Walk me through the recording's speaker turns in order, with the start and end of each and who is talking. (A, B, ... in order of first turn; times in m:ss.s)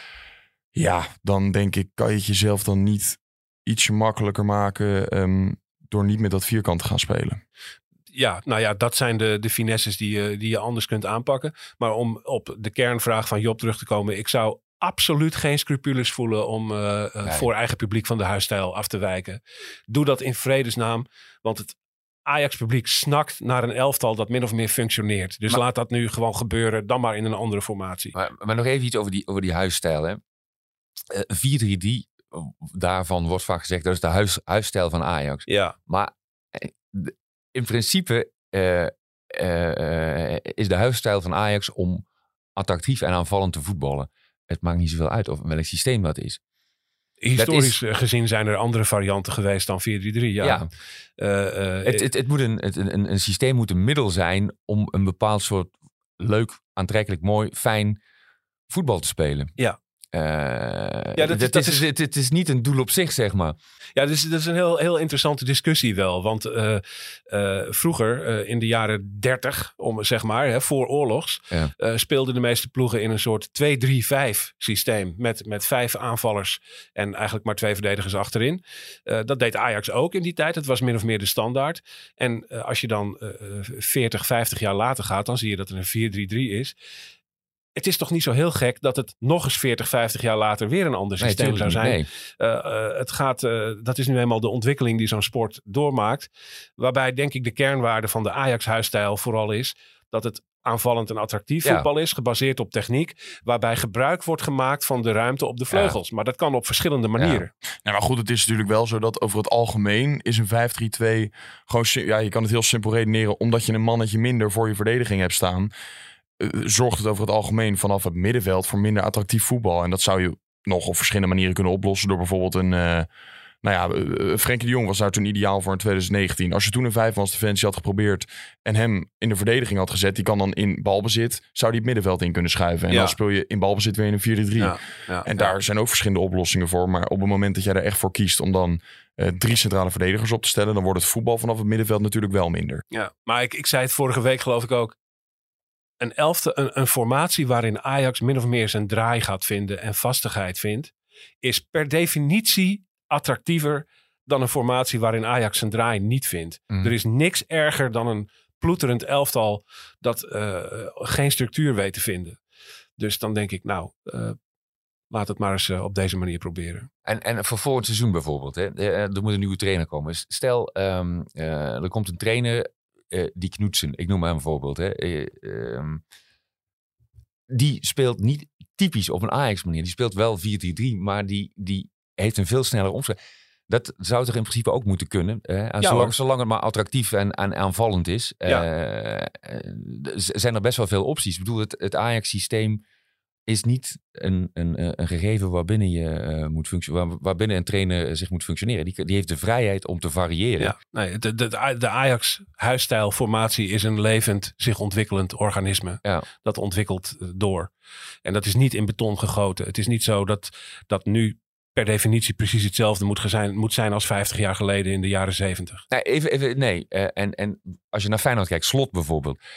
0:00.8-0:07.4 A
0:08.1-0:21.8 B
0:17.2-0:17.5 C
0:22.3-0:28.1 B
0:28.1-0:30.2 C
0:31.1-0:42.0 C
0:35.5-0:35.8 B
0:42.6-0:46.4 C
0:47.2-0:50.6 B
0:47.4-0:47.8 C
0:50.4-0:50.7 C
0:51.2-0:52.1 B
0:51.8-0:58.0 C
0:58.7-0:59.6 C
1:00.1-1:03.6 C
1:01.2-1:01.8 B
1:04.0-1:26.7 B
1:27.8-1:47.5 B
1:31.2-1:32.1 C
1:45.7-1:46.0 C
1:47.2-1:47.4 C
1:47.8-1:55.7 A
1:56.4-2:03.1 A
2:03.6-2:22.8 A
2:12.9-2:13.2 B
2:14.6-2:15.5 B
2:22.9-2:25.0 B
2:26.0-2:30.9 B
2:31.4-2:42.4 B
2:43.0-2:44.4 B
2:45.1-2:46.9 B
2:47.0-2:56.0 C
2:57.5-3:03.2 C
3:03.7-3:12.8 C
3:05.8-3:06.1 B
3:13.5-3:20.7 C
3:20.6-3:27.7 B
3:28.2-3:35.8 B
3:35.9-3:39.4 C